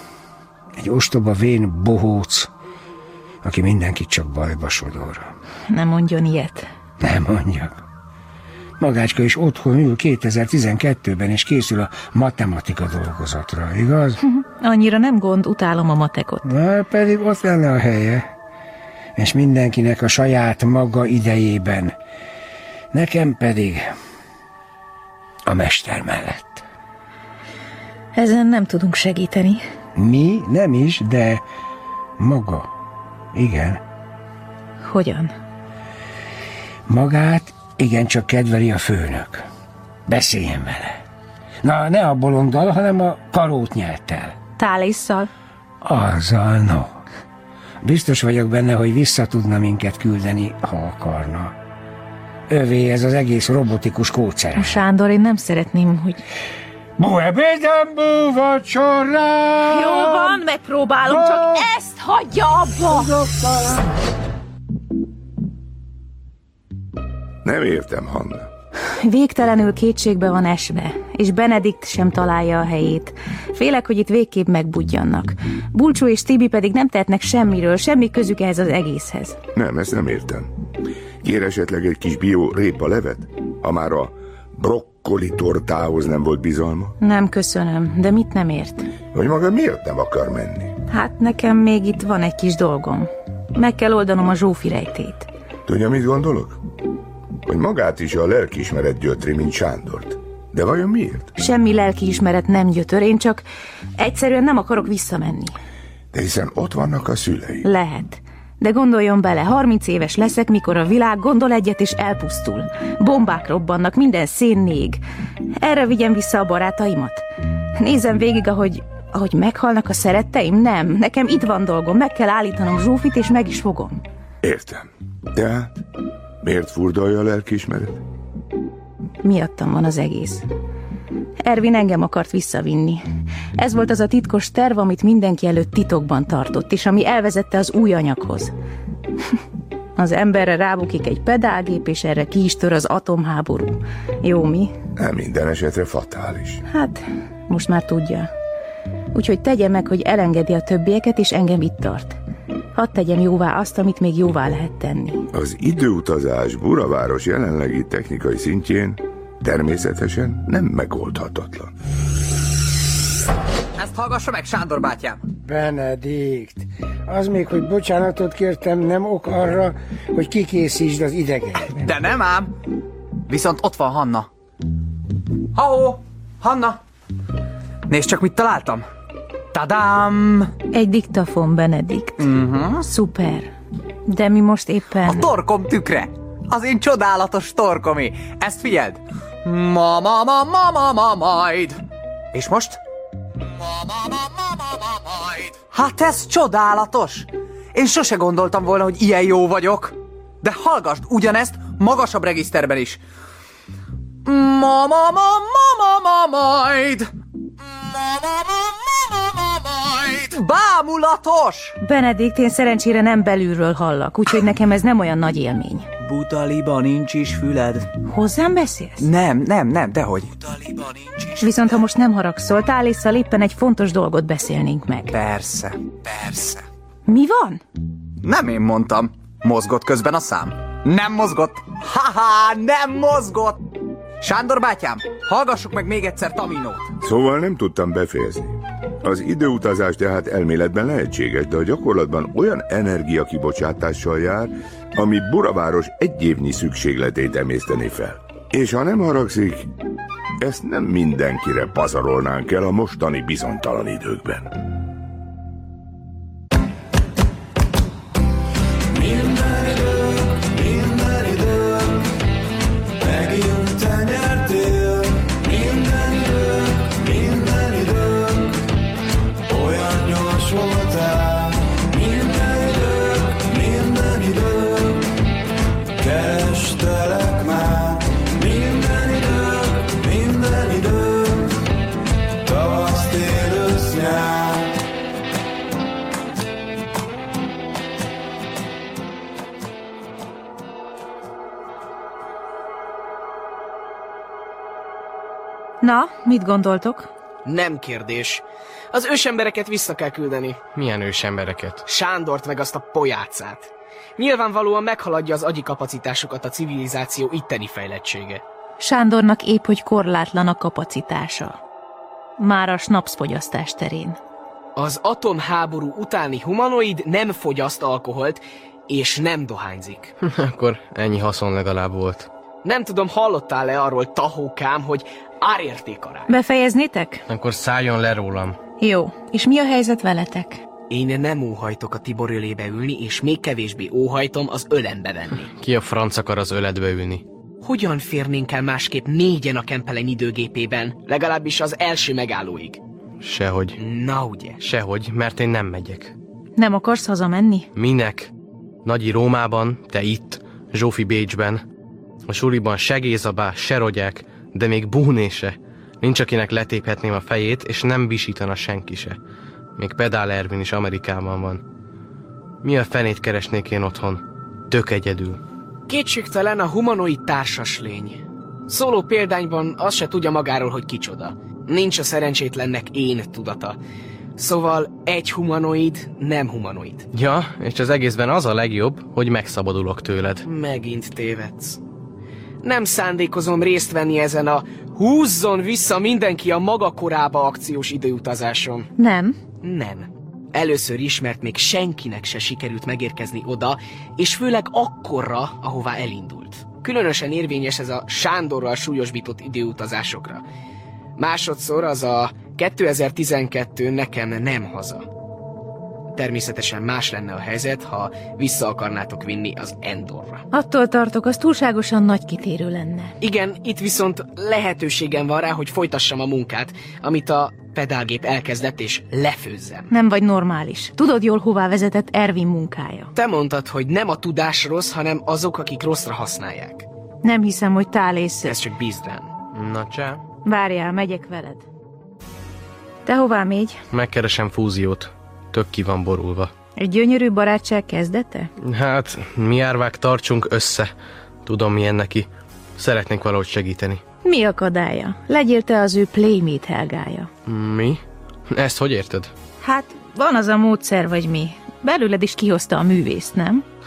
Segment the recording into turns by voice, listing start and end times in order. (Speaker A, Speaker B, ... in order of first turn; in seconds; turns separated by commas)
Speaker A: 0.8-2.5, Speaker A: 3.4-5.3, Speaker B: 5.7-6.7, Speaker A: 7.0-7.8, Speaker A: 8.8-14.2, Speaker B: 14.2-16.4, Speaker A: 16.4-18.3, Speaker A: 19.2-21.9, Speaker A: 22.9-23.9, Speaker A: 25.5-26.6, Speaker B: 28.1-29.6, Speaker A: 30.0-31.4, Speaker A: 32.2-32.7, Speaker A: 33.3-33.8, Speaker B: 34.8-35.3, Speaker A: 36.9-39.5, Speaker A: 40.1-41.0, Speaker A: 41.6-44.4, Speaker B: 44.6-45.3, Speaker A: 45.8-47.0, Speaker A: 47.8-51.5, Speaker A: 52.5-54.8, Speaker B: 54.6-56.2, Speaker A: 57.0-60.4, Speaker B: 59.7-63.1, Speaker A: 61.1-61.7, Speaker A: 62.8-63.8, Speaker C: 67.5-68.5, Speaker B: 69.0-79.4, Speaker C: 79.5-80.5, Speaker C: 81.2-87.0, Speaker B: 87.0-88.9, Speaker C: 89.1-90.8, Speaker B: 90.9-95.3, Speaker C: 95.7-96.6, Speaker C: 97.5-101.3, Speaker B: 101.4-103.5, Speaker B: 104.0-105.5, Speaker C: 106.1-107.7, Speaker B: 107.6-115.0, Speaker B: 115.6-117.2, Speaker B: 117.8-124.0, Speaker C: 124.4-125.8, Speaker C: 126.4-128.0, Speaker B: 129.2-130.4, Speaker B: 131.4-133.0, Speaker B: 133.6-138.5, Speaker B: 140.0-144.7, Speaker C: 145.0-146.6, Speaker B: 146.7-148.3, Speaker B: 149.1-152.2, Speaker B: 152.8-155.2, Speaker C: 155.3-161.7, Speaker D: 163.8-165.2, Speaker A: 165.4-171.9, Speaker D: 171.7-172.5, Speaker D: 173.3-174.3, Speaker D: 175.6-176.8, Speaker D: 177.9-178.8, Speaker D: 179.5-180.5, Speaker B: 180.7-183.5, Speaker D: 182.2-182.8, Speaker B: 184.1-185.3, Speaker D: 185.1-191.8, Speaker D: 192.3-192.8, Speaker D: 195.7-203.0, Speaker D: 204.2-207.1, Speaker D: 210.1-211.8, Speaker B: 211.8-215.9, Speaker D: 216.0-217.9, Speaker B: 218.1-219.1, Speaker D: 219.0-221.3, Speaker B: 221.4-225.1, Speaker D: 225.1-226.6, Speaker B: 227.1-227.6, Speaker D: 228.2-233.6, Speaker D: 234.2-236.9, Speaker C: 237.0-249.7, Speaker C: 250.4-254.5, Speaker E: 258.9-262.1, Speaker E: 263.0-268.6, Speaker E: 269.5-275.1, Speaker E: 276.0-281.6, Speaker E: 282.4-284.7, Speaker B: 295.8-297.1, Speaker F: 297.4-300.6, Speaker G: 300.7-301.8, Speaker F: 301.9-308.4, Speaker B: 308.8-311.6, Speaker B: 312.4-314.2, Speaker F: 314.8-320.1, Speaker G: 320.2-322.3, Speaker F: 322.6-326.3, Speaker B: 326.3-327.2, Speaker G: 327.3-328.6, Speaker B: 328.8-330.6, Speaker F: 330.9-335.5, Speaker G: 335.5-337.2, Speaker F: 337.6-342.8, Speaker G: 343.2-343.8, Speaker F: 343.8-344.6, Speaker G: 344.6-346.1, Speaker B: 346.6-347.7, Speaker G: 347.8-348.3, Speaker G: 348.8-351.6, Speaker G: 352.3-359.2, Speaker G: 359.8-361.6, Speaker G: 362.6-365.4, Speaker F: 365.9-373.8, Speaker F: 374.4-377.1, Speaker G: 377.1-380.4, Speaker F: 380.4-381.8, Speaker F: 382.6-388.9, Speaker B: 389.0-389.4, Speaker F: 389.6-400.4, Speaker F: 401.2-405.1, Speaker F: 406.1-410.4, Speaker B: 410.5-413.1, Speaker F: 413.2-419.9, Speaker B: 419.9-423.1, Speaker F: 423.1-426.9, Speaker B: 427.2-428.6, Speaker F: 428.4-429.3, Speaker G: 429.5-430.2, Speaker B: 430.4-431.6, Speaker B: 433.1-433.8, Speaker G: 433.9-436.5, Speaker B: 436.8-438.5, Speaker G: 438.6-440.9, Speaker G: 441.4-444.0, Speaker B: 444.2-447.3, Speaker G: 447.5-449.3, Speaker B: 449.6-453.6